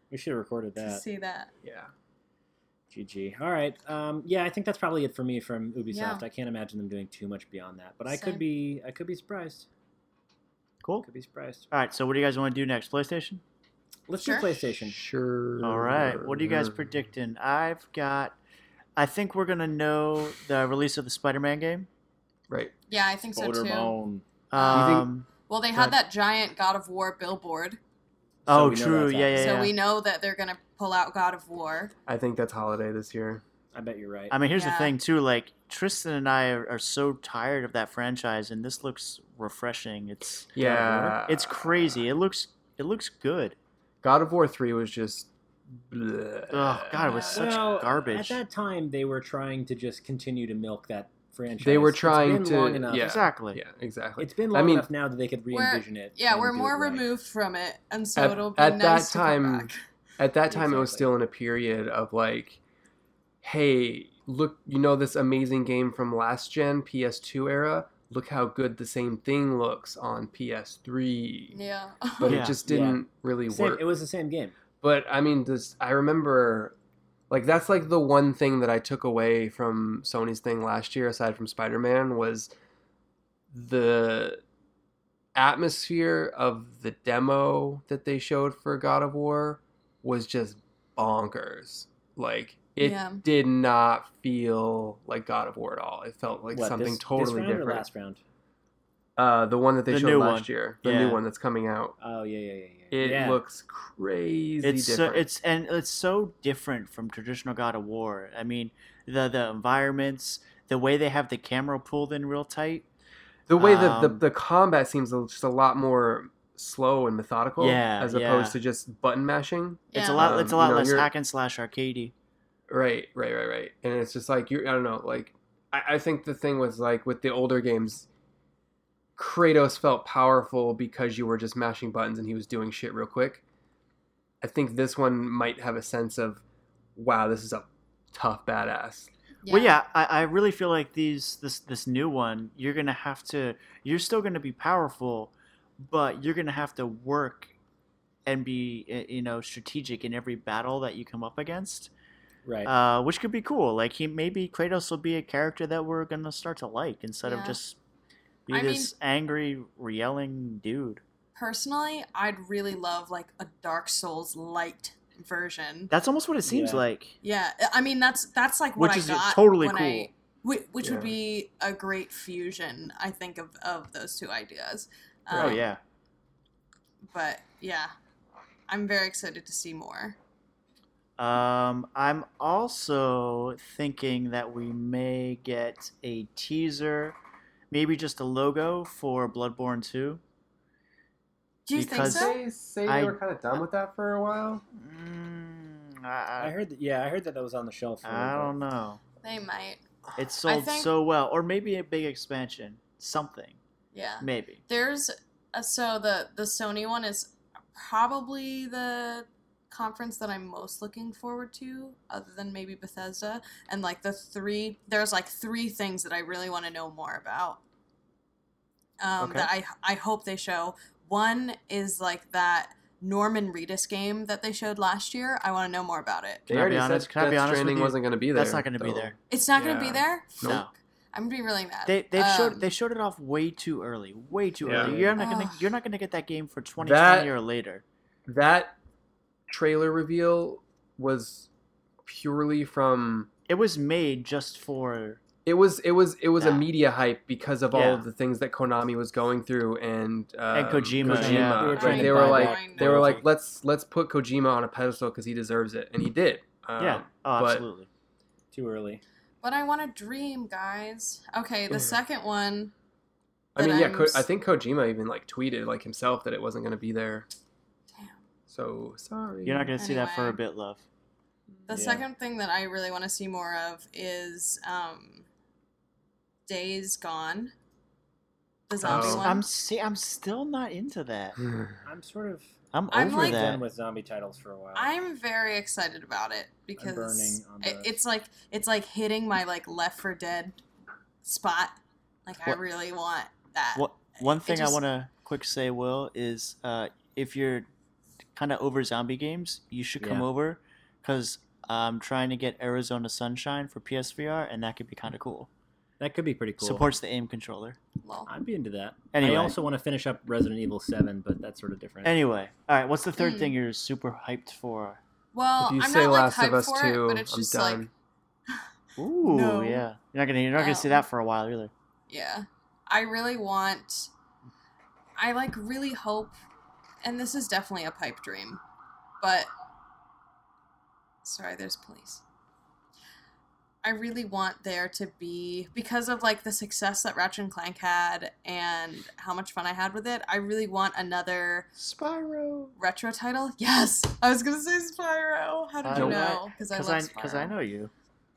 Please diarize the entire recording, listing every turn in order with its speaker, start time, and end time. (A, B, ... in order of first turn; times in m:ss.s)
0:00.1-0:01.0 A
0:00.8-0:01.5 B
0:01.6-0:01.9 C
0:02.9-0:09.7 A
0:05.9-0:06.2 B
0:08.1-0:08.4 B
0:11.0-0:11.6 A
0:11.7-0:13.4 D
0:14.1-0:15.0 A
0:14.2-0:14.5 B
0:14.6-0:16.9 C
0:15.6-0:18.4 D
0:19.0-0:21.9 D
0:22.5-0:22.7 C
0:22.9-0:23.9 B
0:23.4-0:24.2 A
0:24.5-0:25.3 D
0:24.5-0:27.8 B
0:24.7-0:25.1 C
0:28.5-0:29.7 A
0:28.5-0:29.7 D
0:29.3-0:31.9 B
0:32.0-0:33.4 C
0:33.7-0:34.4 A
0:34.3-0:40.5 D
0:34.5-0:34.9 B
0:40.5-0:42.1 C
0:40.6-0:41.2 A
0:41.3-0:43.6 D
0:44.0-0:47.2 C
0:46.5-0:48.4 D
0:47.0-0:47.6 B
0:47.3-0:53.1 A
0:51.6-0:54.9 C
0:53.0-0:53.6 D
0:54.2-0:57.0 A
0:55.5-0:59.8 B
0:58.2-1:02.6 C
1:00.5-1:01.1 A
1:03.4-1:11.5 C
1:11.5-1:12.4 B
1:12.2-1:13.8 C
1:12.2-1:12.6 D
1:12.6-1:14.6 A
1:14.8-1:16.7 C
1:17.3-1:22.5 C
1:23.5-1:24.4 C
1:25.3-1:37.8 C
1:32.8-1:33.2 B
1:36.5-1:38.2 A
1:39.2-1:41.9 C
1:39.9-1:41.2 D
1:42.0-1:43.4 A
1:42.9-1:45.2 C
1:44.6-1:52.9 D
1:53.5-2:01.1 C
1:53.6-1:54.2 D
1:57.6-1:58.6 D
1:59.9-2:00.4 B
1:59.9-2:02.1 D
2:02.7-2:08.1 C
2:09.2-2:13.4 C
2:14.4-2:16.4 C
2:17.0-2:19.1 C
2:19.4-2:19.8 B
2:19.5-2:27.5 D
2:28.2-2:31.9 D
2:32.4-2:32.7 A
2:32.6-2:37.8 D
2:37.2-2:37.6 B
2:38.5-2:41.0 D
2:38.5-2:38.9 B
2:41.4-2:45.9 B
2:45.9-2:47.2 D
2:46.4-2:46.8 A
2:47.2-2:55.6 B
2:48.8-2:50.1 D
2:50.8-2:51.1 C
2:55.3-2:55.6 C
2:55.3-2:55.8 D
2:57.1-2:57.9 B
2:58.7-3:00.2 B
3:01.2-3:07.2 D
3:07.7-3:10.2 D
3:11.6-3:12.4 B
3:11.8-3:12.3 D
3:12.0-3:14.6 C
3:12.9-3:13.2 D
3:14.7-3:16.5 D
3:16.4-3:18.5 A
3:18.0-3:19.0 D
3:19.2-3:19.8 B
3:20.2-3:23.6 D
3:20.4-3:20.9 B
3:23.9-3:37.6 B
3:24.2-3:24.6 D
3:39.0-3:46.4 B
3:39.2-3:39.5 D
3:46.5-3:50.6 C
3:46.5-3:49.2 D
3:49.3-3:52.7 B
3:50.4-3:50.7 D
3:51.9-3:57.8 D
3:54.6-3:55.1 C
3:54.7-3:55.1 A
3:55.2-3:55.7 B
3:56.8-3:57.3 C
3:58.3-3:58.7 C
3:59.5-4:01.5 C
4:02.0-4:03.3 C
4:03.5-4:05.2 D
4:05.4-4:17.6 C
4:06.4-4:06.6 D
4:07.7-4:08.0 D
4:10.5-4:12.2 D
4:11.0-4:13.2 A
4:11.6-4:12.9 B
4:16.8-4:17.9 D
4:18.5-4:19.0 A
4:19.4-4:22.7 B
4:21.7-4:22.0 C
4:23.5-4:27.3 C
4:23.6-4:24.2 B
4:28.5-4:29.7 C
4:29.4-4:30.8 D
4:29.8-4:30.4 B
4:31.6-4:35.3 B
4:31.7-4:32.0 A
4:36.4-4:37.5 B
4:38.7-4:39.4 B
4:38.8-4:39.3 C
4:38.9-4:41.4 D
4:41.4-4:41.8 C
4:41.8-4:44.9 A
4:42.7-4:43.6 D
4:42.9-4:43.5 B
4:44.7-4:50.6 B
4:46.8-4:48.0 A
4:51.2-4:53.8 B
4:53.8-4:57.7 D
4:54.4-4:54.8 B
4:58.4-5:05.5 D
5:00.0-5:00.3 A
5:06.0-5:06.8 A
5:06.6-5:07.8 D
5:08.0-5:08.3 B
5:08.3-5:12.2 A
5:09.1-5:09.6 D
5:12.0-5:15.0 D
5:13.2-5:13.5 B
5:15.3-5:17.8 B
5:15.6-5:17.9 C
5:19.0-5:21.7 D
5:19.2-5:19.9 B
5:20.6-5:21.0 B
5:22.1-5:24.1 B
5:25.2-5:26.4 B
5:27.0-5:28.6 B
5:29.2-5:29.5 B
5:31.2-5:32.2 B
5:33.8-5:41.7 B
5:41.8-5:42.7 D
5:42.8-5:47.5 B
5:45.8-5:47.9 D
5:45.9-5:46.2 C